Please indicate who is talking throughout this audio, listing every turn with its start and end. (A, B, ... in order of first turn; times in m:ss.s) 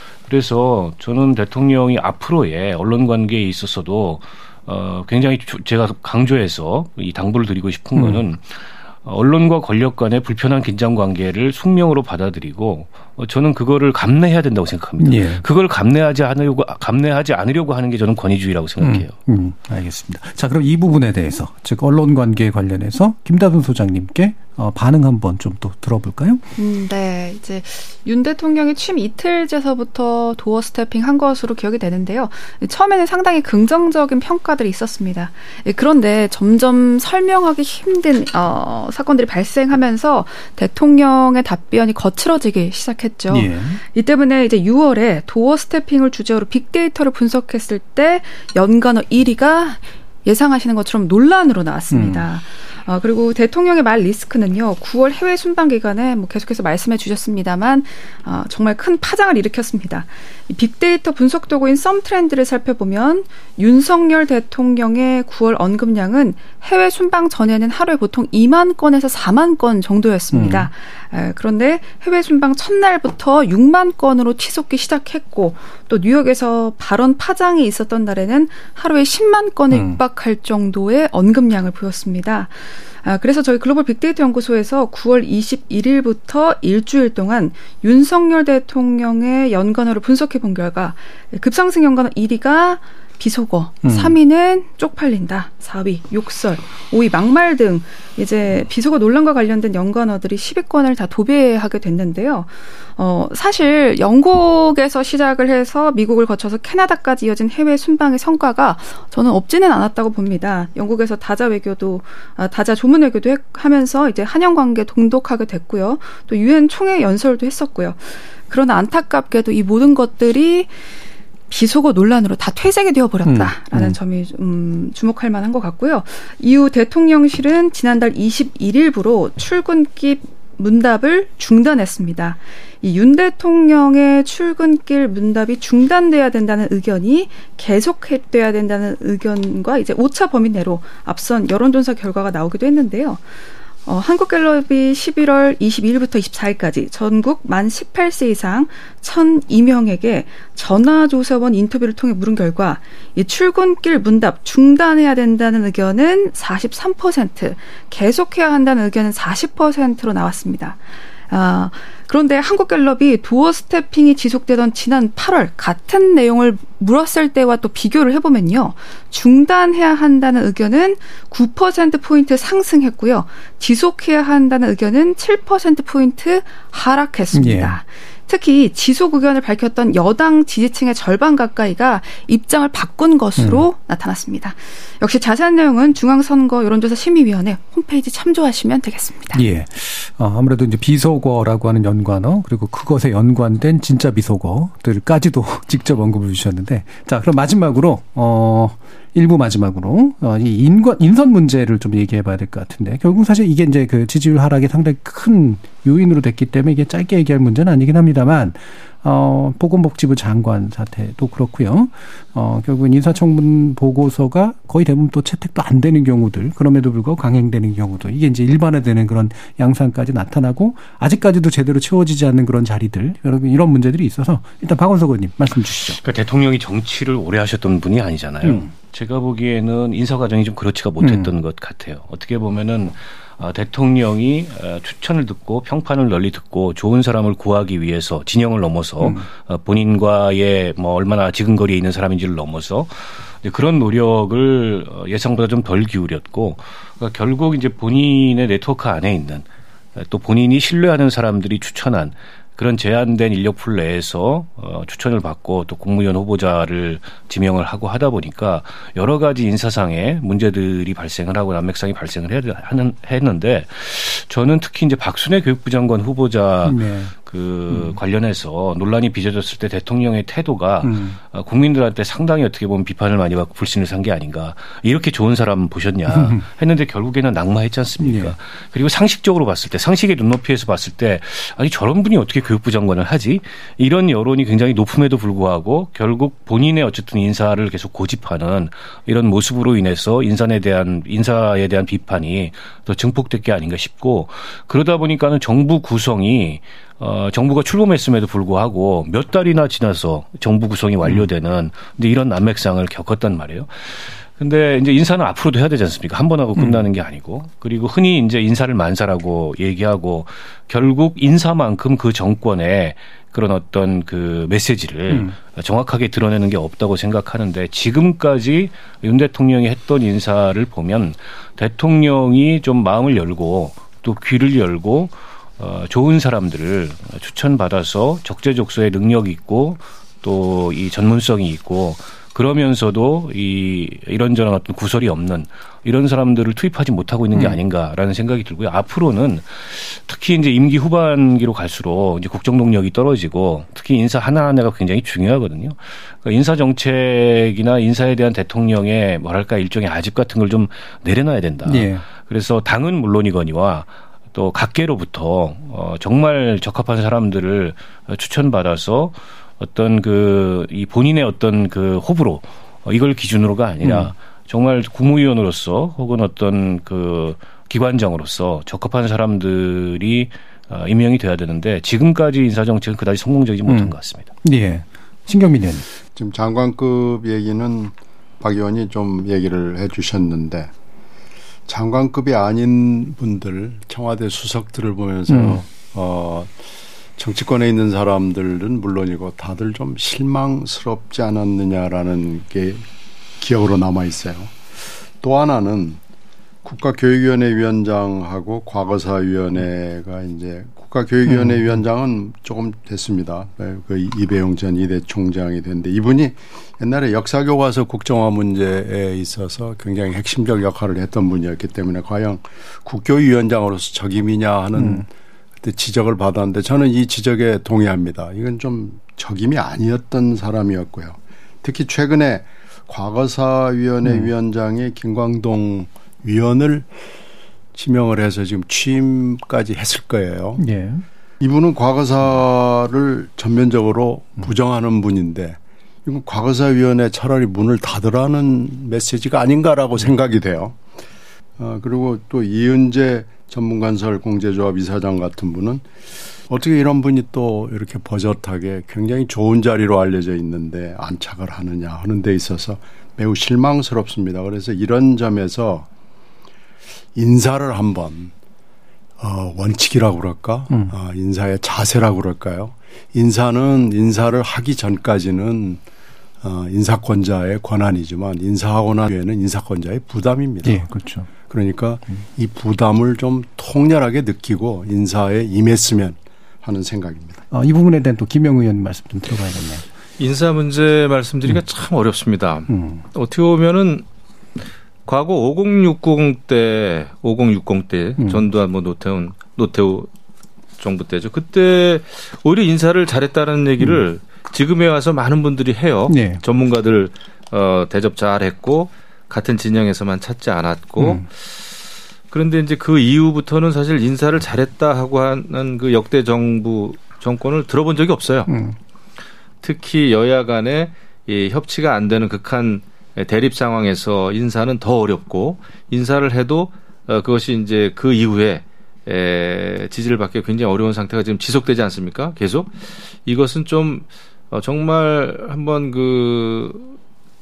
0:00.2-0:19.1 A
0:08.0-0:08.2 B
0:15.0-0:15.4 B
0:18.8-0:26.4 B
0:26.6-2:00.7 C
0:43.3-0:43.8 B
0:51.9-0:52.2 B
1:10.3-1:10.7 B
1:19.7-1:20.0 B
1:33.8-1:34.2 B
2:01.5-2:23.2 C
2:03.2-2:04.0 B
2:23.8-3:09.4 C
2:57.3-2:57.8 B
3:03.4-3:03.6 B
3:09.3-3:46.0 B
3:45.9-6:14.3 A
3:48.4-3:48.7 B
3:51.0-3:51.3 B
3:59.0-3:59.2 B
4:26.6-4:27.1 B
4:27.7-4:28.0 B
4:30.8-4:31.2 B
4:36.1-4:36.4 B
4:38.0-4:38.3 B
5:06.6-5:06.9 B
5:15.1-5:15.3 B
5:37.3-5:37.6 B
5:51.6-5:52.0 B
6:03.8-6:04.1 B
6:13.7-6:15.8 B
6:16.1-6:20.7 D
6:21.7-6:26.5 D
6:25.3-6:25.6 B
6:27.2-6:32.8 D
6:33.4-6:34.5 D
6:35.2-6:36.0 D
6:36.6-6:55.1 D
6:41.3-6:41.8 B
6:54.8-6:55.0 B
6:55.6-7:06.9 D
7:04.0-7:04.3 B
7:07.7-7:10.6 D
7:10.6-7:11.0 B
7:11.4-7:20.8 D
7:21.6-7:25.9 D
7:26.5-7:35.9 D
7:37.1-7:38.3 D
7:39.2-7:45.8 D
7:46.4-7:50.8 D
7:50.6-7:51.3 B
7:51.4-7:57.4 D
7:57.5-7:59.8 B
8:00.2-8:04.0 E
8:02.7-8:03.0 B
8:05.1-8:10.1 E
8:08.2-8:08.4 B
8:10.8-8:21.6 E
8:16.1-8:16.4 B
8:21.0-8:21.2 B
8:22.3-8:28.5 E
8:28.5-8:28.7 B
8:29.6-8:46.9 E